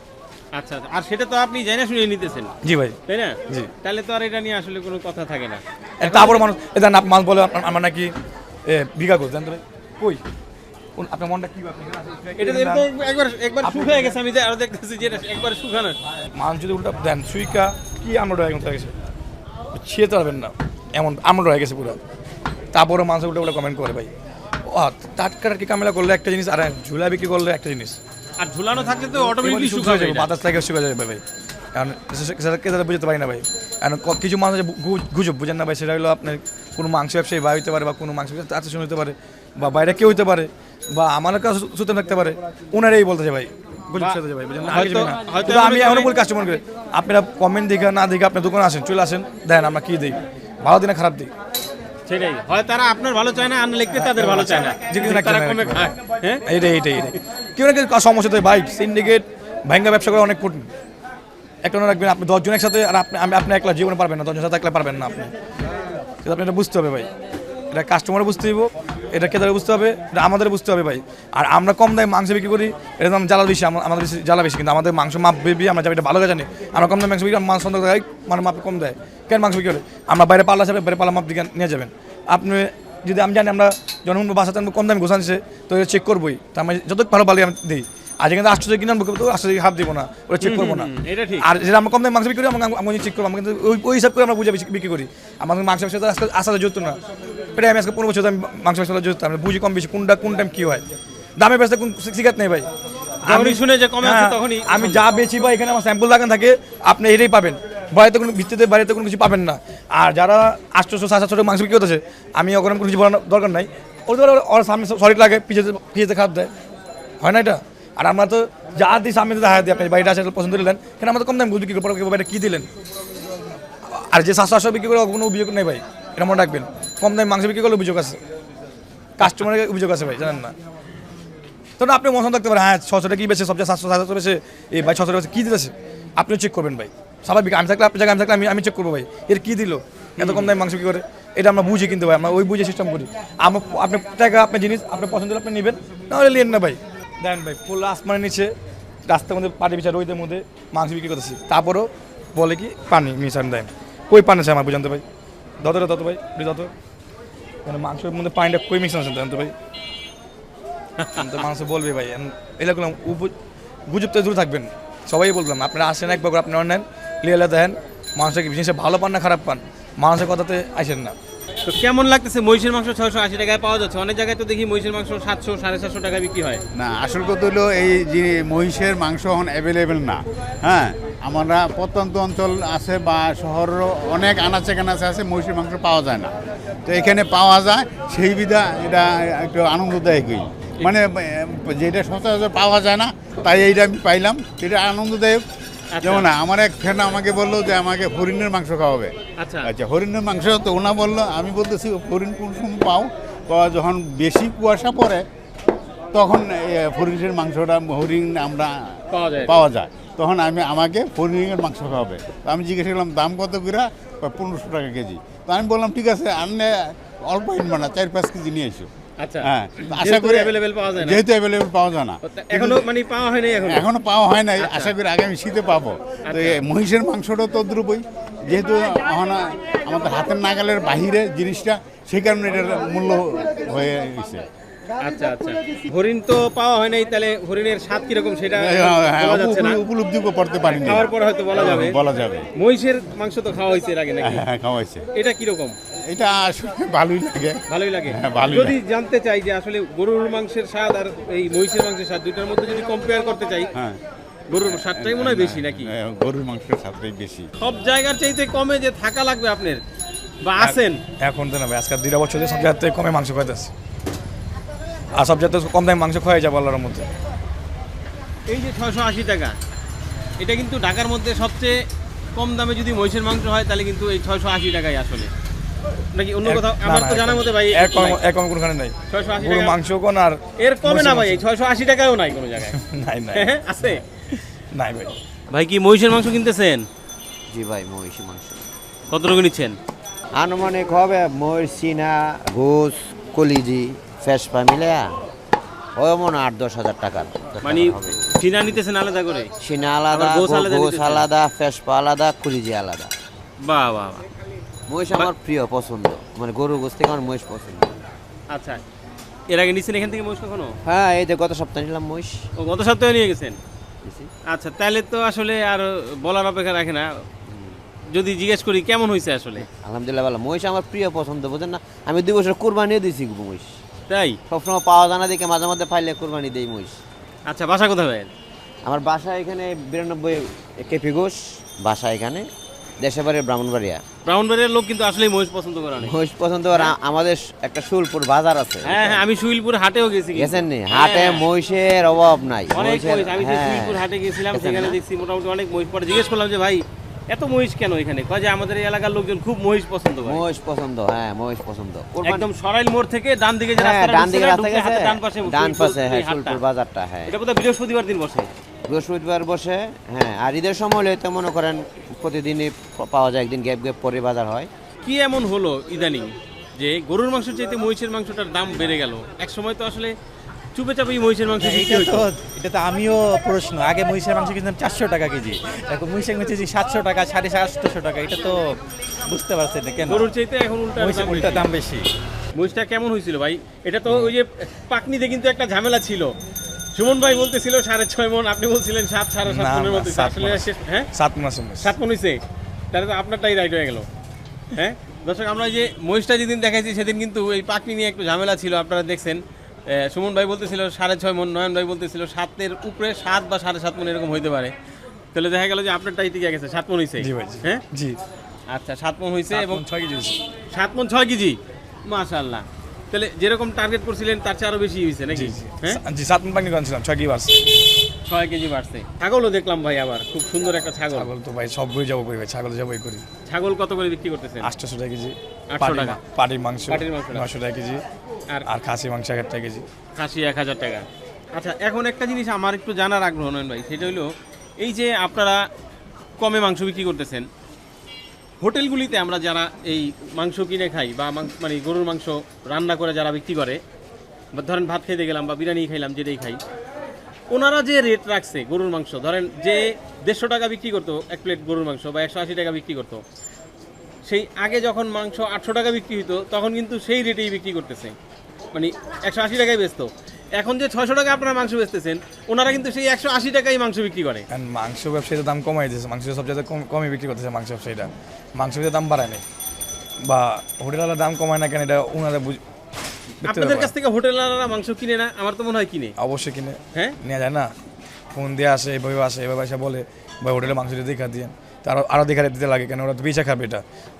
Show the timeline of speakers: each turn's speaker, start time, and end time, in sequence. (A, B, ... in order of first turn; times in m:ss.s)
0:00.5-0:02.5 A
0:02.6-0:03.7 B
0:03.1-0:06.4 A
0:06.0-0:08.1 B
0:08.6-0:10.2 B
0:11.0-0:12.9 B
0:12.4-0:16.0 A
0:13.6-0:14.1 B
0:16.4-0:18.9 B
0:19.7-0:22.0 B
0:22.7-0:24.1 B
0:24.6-0:28.0 B
0:28.4-0:30.3 A
0:29.3-0:31.2 B
0:31.7-0:51.3 B
0:44.0-0:46.1 A
0:52.1-0:56.4 A
0:53.9-0:55.9 B
0:56.4-1:00.7 B
1:01.6-1:05.3 B
1:06.2-1:07.1 B
1:07.7-1:37.0 B
1:30.4-1:31.5 A
1:37.6-1:40.8 B
1:41.4-1:42.7 B
1:43.2-1:56.5 B
1:43.2-1:45.0 A
1:57.2-2:02.7 B
2:03.8-2:08.2 B
2:09.2-2:10.5 B
2:11.8-2:28.5 B
2:20.2-2:20.5 A
2:29.1-2:35.0 B
2:35.6-2:36.7 B
2:37.6-2:39.5 B
2:41.0-2:41.3 A
2:41.2-2:43.3 B
2:43.9-2:51.1 B
2:51.6-2:56.6 A
2:56.8-3:06.3 C
3:06.8-3:15.4 C
3:15.9-3:16.3 A
3:16.0-3:19.1 C
3:19.4-3:19.7 A
3:19.6-3:25.2 C
3:26.1-3:28.9 C
3:29.1-3:29.6 A
3:29.4-3:38.9 C
3:39.2-3:41.2 A
3:39.4-3:42.8 C
3:42.2-3:43.9 A
3:43.6-3:54.4 C
3:44.6-3:44.9 A
3:46.2-3:46.6 A
3:55.0-3:59.8 A
3:58.5-4:02.5 C
4:00.7-4:02.0 A
4:02.6-4:04.4 A
4:04.2-4:05.0 C
4:05.1-4:05.7 A
4:06.1-4:08.8 C
4:07.7-4:13.7 A
4:14.5-4:15.9 A
4:14.6-4:17.5 C
4:17.6-4:19.8 A
4:20.4-4:21.0 A
4:20.6-4:23.7 B
4:25.2-4:27.0 B
4:28.5-4:29.6 A
4:30.4-4:31.8 A
4:32.4-4:35.3 A
4:36.1-4:38.2 A
4:36.4-4:41.4 B
4:39.1-4:39.8 A
4:40.6-4:42.8 A
4:42.7-4:43.5 B
4:43.3-4:44.0 A
4:44.3-4:45.2 B
4:45.5-4:46.8 A
4:47.5-4:48.6 D
4:49.1-4:49.8 A
4:50.3-4:55.1 D
4:56.0-4:58.3 D
4:57.6-4:59.5 A
4:59.6-5:03.1 D
5:00.1-5:01.2 A
5:03.6-5:04.2 A
5:04.9-5:08.0 D
5:08.5-5:08.8 A
5:09.5-5:10.7 A
5:10.8-5:12.5 D
5:12.6-5:13.6 A
5:14.0-5:14.3 D
5:14.5-5:17.1 A
5:18.1-5:19.7 A
5:19.8-5:23.7 D
5:24.1-5:24.4 A
5:24.5-5:27.0 D
5:27.5-5:28.3 A
5:28.8-5:32.4 D
5:33.0-5:34.0 D
5:34.2-5:36.2 A
5:36.0-5:39.2 D
5:38.8-5:41.4 A
5:40.3-5:45.0 D
5:42.7-5:50.4 A
5:50.2-5:52.5 D
5:52.2-5:56.6 A
5:53.7-5:57.3 D
5:57.3-5:58.5 A
5:58.9-6:04.7 D
6:05.0-6:10.1 A
6:10.7-6:12.3 A
6:11.6-6:20.3 E
6:20.0-6:21.7 A
6:21.0-6:22.1 E
6:22.5-6:26.3 A
6:26.9-6:31.1 A
6:29.4-6:31.9 B
6:31.8-6:32.4 A
6:32.9-6:34.0 A
6:34.7-6:44.7 A
6:45.3-6:47.8 A
6:47.2-6:48.2 B
6:48.7-6:49.8 A
6:49.5-6:50.4 B
6:50.7-6:56.0 A
6:55.3-6:57.6 B
6:58.2-7:01.3 A
7:01.1-7:03.2 B
7:03.5-7:04.7 A
7:04.6-7:08.0 B
7:05.7-7:06.2 A
7:06.9-7:07.5 A
7:08.6-7:09.8 B
7:10.2-7:15.6 A
7:16.4-7:17.5 A
7:18.6-7:23.8 A
7:24.5-7:26.6 A
7:27.5-7:33.2 A
7:34.3-7:38.1 A
7:38.7-7:44.4 A
7:44.5-7:49.4 B
7:50.2-7:52.6 B
7:53.4-7:53.9 B
7:53.4-7:56.1 A
7:56.2-7:57.7 B
7:58.3-8:03.8 B